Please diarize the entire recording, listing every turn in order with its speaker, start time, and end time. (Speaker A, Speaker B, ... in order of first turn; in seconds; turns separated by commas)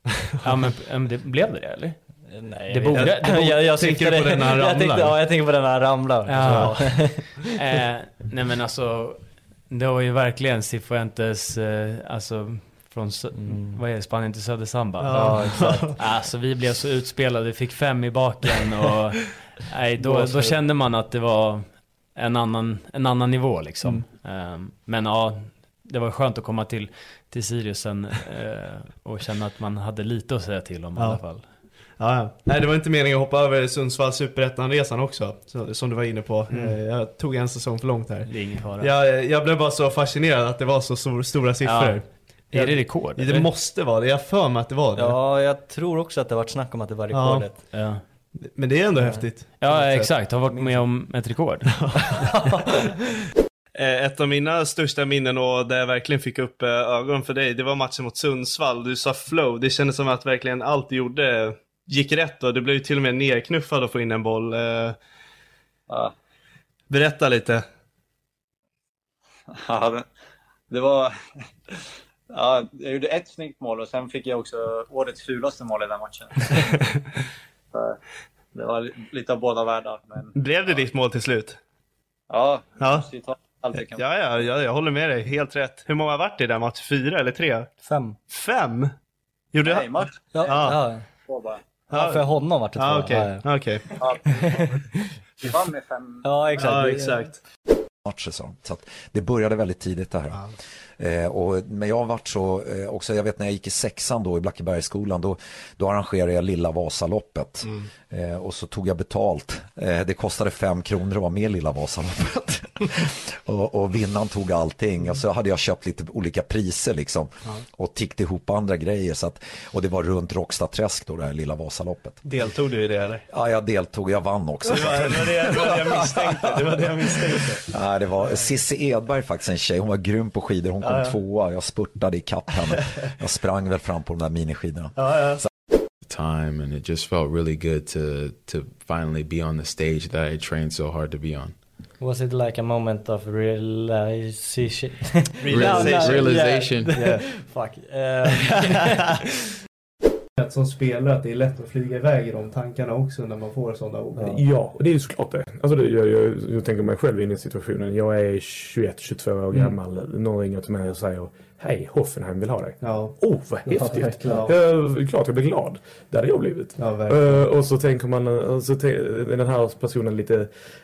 Speaker A: 0.4-2.0, Speaker B: 2.3-7.5, Speaker A: 2.7-3.7, Speaker C: 2.9-5.2, Speaker A: 6.2-31.6, Speaker C: 6.4-7.2, Speaker B: 13.3-13.8, Speaker C: 15.0-16.0, Speaker B: 15.1-15.9, Speaker B: 20.0-20.5, Speaker C: 20.1-20.6, Speaker C: 30.9-31.2, Speaker C: 31.9-45.2, Speaker A: 38.2-38.9, Speaker A: 41.6-43.5, Speaker B: 44.9-47.6, Speaker C: 47.1-47.6, Speaker A: 47.6-48.0, Speaker C: 48.4-50.1, Speaker B: 49.0-49.2, Speaker A: 49.6-51.7, Speaker B: 50.5-50.8, Speaker C: 53.7-65.0, Speaker C: 66.9-67.6, Speaker D: 69.6-70.0, Speaker D: 70.7-71.1, Speaker D: 72.3-76.3, Speaker D: 78.5-80.8, Speaker C: 80.3-81.6, Speaker D: 82.3-84.0, Speaker C: 82.8-83.1, Speaker C: 83.8-87.7, Speaker B: 87.8-88.2, Speaker C: 88.3-88.9, Speaker C: 89.5-90.8, Speaker D: 89.6-90.1, Speaker B: 90.3-91.0, Speaker D: 91.3-91.6, Speaker B: 91.9-93.5, Speaker C: 91.9-93.9, Speaker B: 94.4-94.7, Speaker D: 95.4-96.2, Speaker B: 96.2-97.2, Speaker C: 96.5-97.4, Speaker E: 98.0-100.5, Speaker E: 101.0-122.2, Speaker C: 122.2-123.2, Speaker E: 123.3-126.5, Speaker C: 124.6-127.6, Speaker E: 127.7-135.4, Speaker C: 130.8-131.1, Speaker C: 135.0-135.4, Speaker F: 136.1-141.6, Speaker B: 142.0-149.1, Speaker C: 145.4-147.2, Speaker F: 145.5-147.0, Speaker C: 150.4-154.4, Speaker G: 154.2-170.5, Speaker C: 162.8-163.2, Speaker B: 163.7-164.4, Speaker C: 164.2-164.5, Speaker C: 166.8-167.4